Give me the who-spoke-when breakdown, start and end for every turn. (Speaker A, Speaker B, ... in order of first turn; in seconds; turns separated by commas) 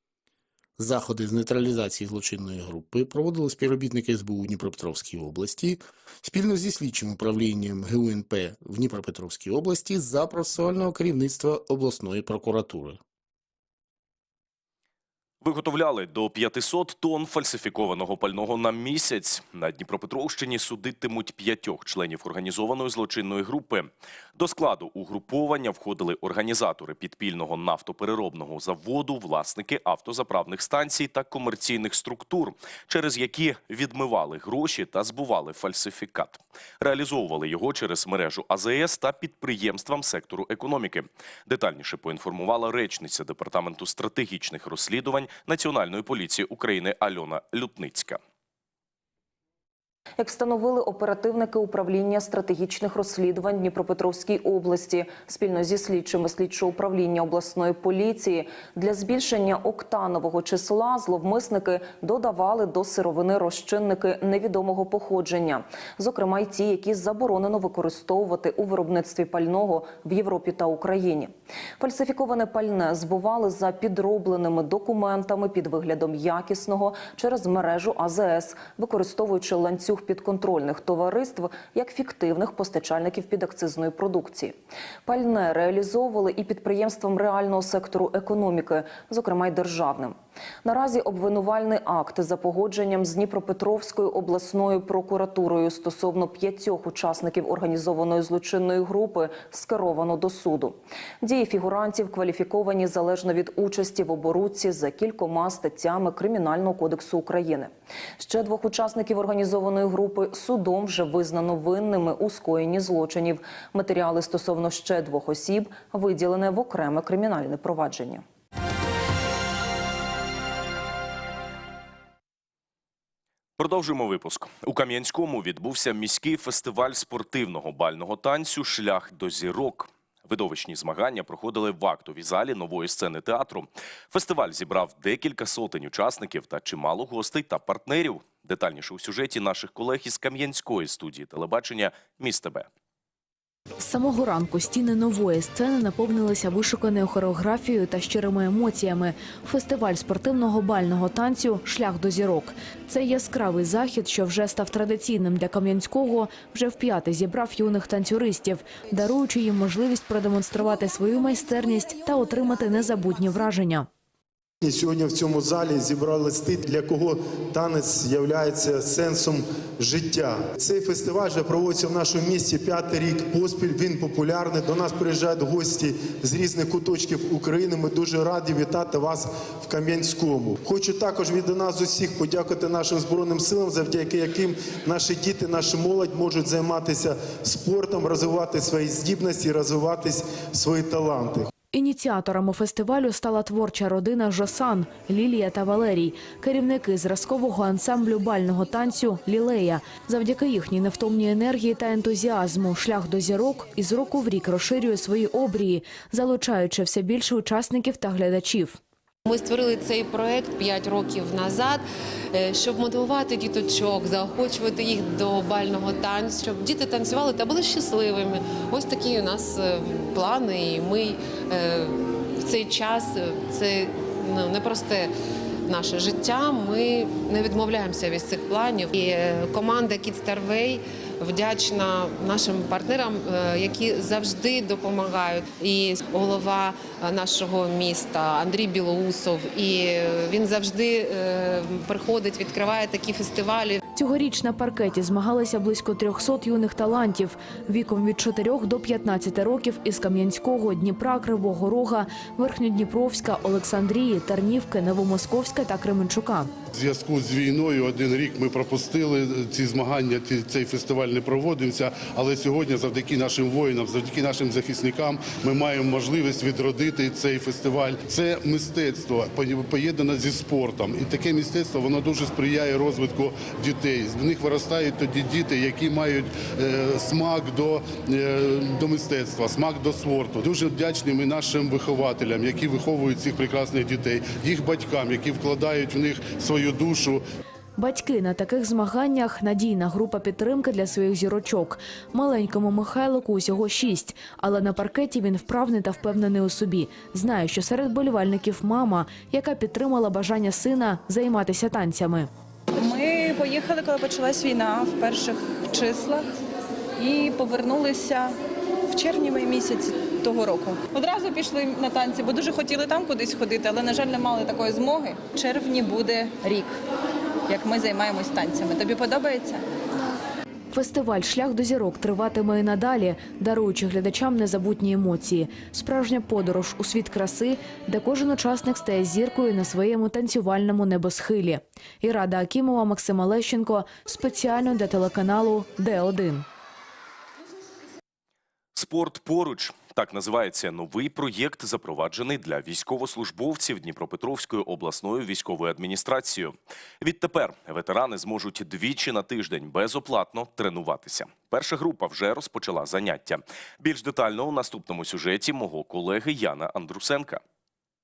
Speaker A: 0.8-13.0, Speaker B: 15.4-48.2, Speaker C: 50.2-118.2, Speaker B: 123.6-142.7, Speaker D: 143.8-163.9, Speaker E: 164.6-191.5, Speaker D: 191.7-208.8, Speaker F: 209.2-225.1, Speaker F: 225.7-243.8, Speaker D: 243.9-256.5, Speaker G: 256.7-287.2, Speaker D: 287.8-302.3, Speaker H: 302.7-306.3, Speaker H: 307.0-308.4, Speaker H: 308.9-316.8, Speaker H: 317.5-319.6, Speaker D: 320.7-336.4, Speaker B: 338.7-357.4